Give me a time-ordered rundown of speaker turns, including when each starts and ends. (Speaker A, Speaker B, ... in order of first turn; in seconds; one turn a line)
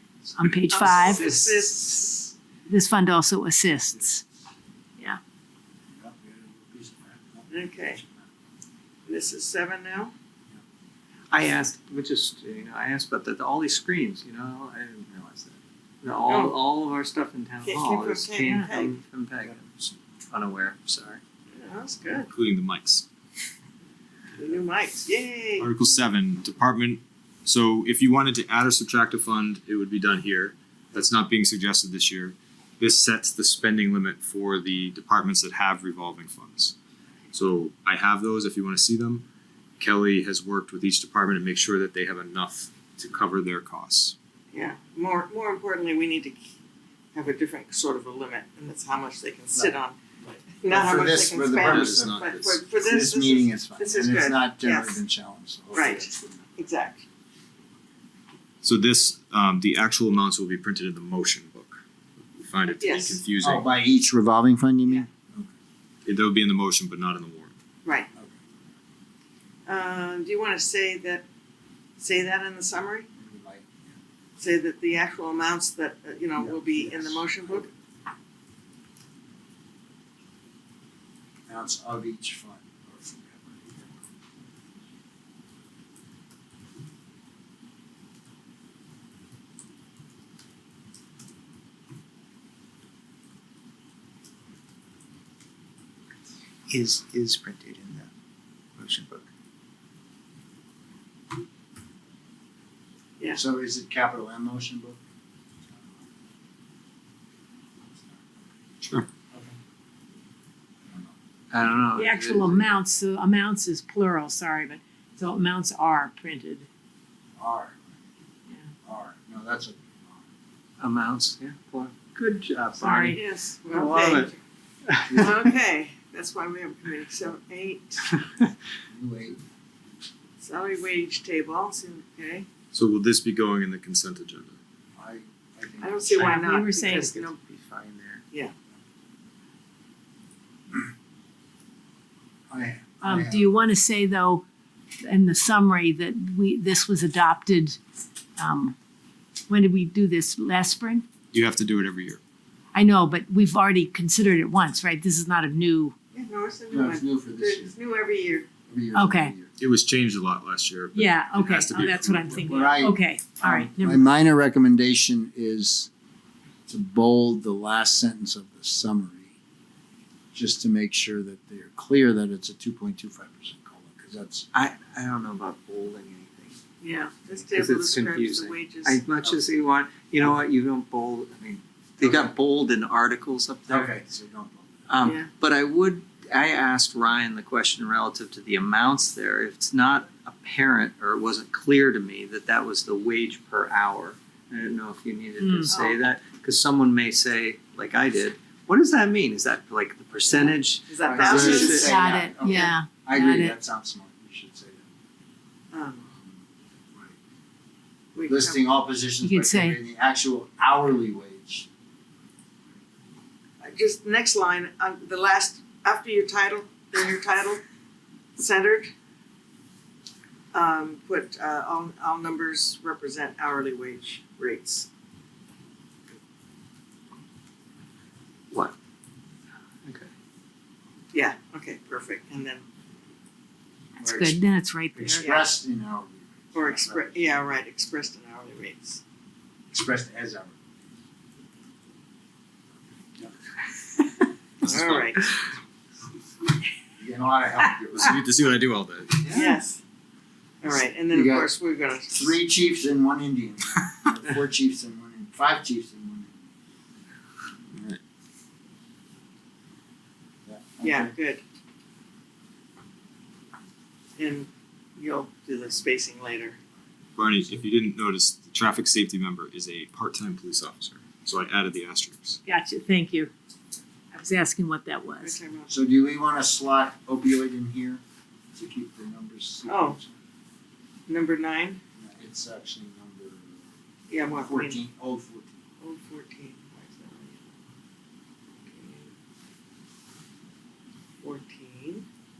Speaker A: 0.4-1.2
Speaker B: 0.4-1.5
Speaker C: 0.7-2.3
Speaker A: 2.7-4.2
Speaker D: 5.9-7.5
Speaker C: 7.5-8.0
Speaker C: 9.1-10.1
Speaker B: 11.3-19.7
Speaker C: 16.3-16.6
Speaker C: 17.6-19.0
Speaker D: 19.4-19.9
Speaker B: 20.3-21.2
Speaker C: 21.5-22.3
Speaker E: 22.3-23.1
Speaker C: 24.4-25.7
Speaker E: 25.6-36.8
Speaker E: 37.3-39.2
Speaker E: 39.8-44.1
Speaker C: 44.5-46.5
Speaker C: 47.1-50.0
Speaker D: 49.5-56.5
Speaker C: 50.6-55.0
Speaker E: 51.5-52.6
Speaker C: 55.7-57.0
Speaker E: 58.6-61.8
Speaker E: 62.3-63.7
Speaker C: 62.8-63.2
Speaker D: 63.4-65.5
Speaker E: 66.0-67.5
Speaker D: 68.1-68.5
Speaker C: 69.7-71.2
Speaker C: 72.0-73.1
Speaker D: 73.2-74.0
Speaker C: 74.4-77.7
Speaker D: 76.3-77.7
Speaker D: 81.5-83.9
Speaker B: 96.7-98.1
Speaker B: 98.8-99.2
Speaker D: 103.3-105.0
Speaker D: 107.9-108.4
Speaker D: 110.8-111.1
Speaker B: 111.5-112.7
Speaker A: 111.9-116.7
Speaker D: 117.4-118.0
Speaker D: 118.8-120.2
Speaker B: 120.8-124.3
Speaker A: 122.8-123.2
Speaker C: 123.1-124.3
Speaker B: 124.9-125.3
Speaker D: 125.1-125.3
Speaker C: 125.2-128.2
Speaker D: 128.9-129.4
Speaker C: 130.4-132.5
Speaker E: 132.7-134.6
Speaker D: 135.0-136.3
Speaker C: 135.8-137.4
Speaker B: 136.1-138.2
Speaker A: 136.2-137.1
Speaker D: 142.5-143.5
Speaker A: 143.0-144.4
Speaker A: 145.0-147.8
Speaker A: 148.4-148.8
Speaker A: 149.5-151.0
Speaker E: 151.3-152.2
Speaker A: 152.7-155.9
Speaker C: 156.1-158.5
Speaker D: 156.7-157.7
Speaker D: 158.7-159.5
Speaker A: 158.9-159.3
Speaker E: 159.6-162.5
Speaker A: 160.9-164.1
Speaker D: 162.3-165.9
Speaker D: 166.7-169.3
Speaker D: 170.3-174.5
Speaker B: 174.5-176.6
Speaker C: 176.8-179.2
Speaker B: 177.5-183.9
Speaker D: 182.0-182.3
Speaker D: 183.7-185.1
Speaker B: 184.9-201.9
Speaker C: 185.0-185.3
Speaker A: 195.4-195.8
Speaker C: 195.7-196.0
Speaker C: 200.3-202.7
Speaker D: 201.1-204.9
Speaker A: 201.6-203.6
Speaker C: 205.7-206.1
Speaker C: 208.1-208.7
Speaker D: 208.3-211.7
Speaker A: 209.2-209.8
Speaker C: 213.6-217.6
Speaker C: 218.4-218.9
Speaker C: 220.5-224.9
Speaker B: 229.8-230.1
Speaker C: 231.1-232.6
Speaker A: 234.0-235.3
Speaker D: 234.0-234.4
Speaker D: 234.9-237.4
Speaker C: 235.1-235.5
Speaker C: 236.5-239.0
Speaker D: 239.7-240.6
Speaker C: 244.6-245.3
Speaker E: 244.7-245.1
Speaker D: 247.0-248.2
Speaker E: 248.0-249.4
Speaker B: 249.3-249.5
Speaker C: 249.3-249.8
Speaker C: 250.6-252.4
Speaker D: 251.1-251.5
Speaker D: 252.1-256.4
Speaker D: 260.4-261.1
Speaker C: 260.8-261.4
Speaker C: 264.2-266.6
Speaker E: 267.1-272.4
Speaker A: 272.4-273.3
Speaker A: 274.1-275.4
Speaker C: 275.2-275.7
Speaker D: 275.7-278.0
Speaker D: 278.5-280.1
Speaker C: 279.7-280.0
Speaker C: 281.1-281.8
Speaker D: 282.0-283.7
Speaker C: 284.1-284.8
Speaker D: 284.3-285.6
Speaker C: 285.8-287.5
Speaker C: 288.6-289.1
Speaker C: 291.2-292.1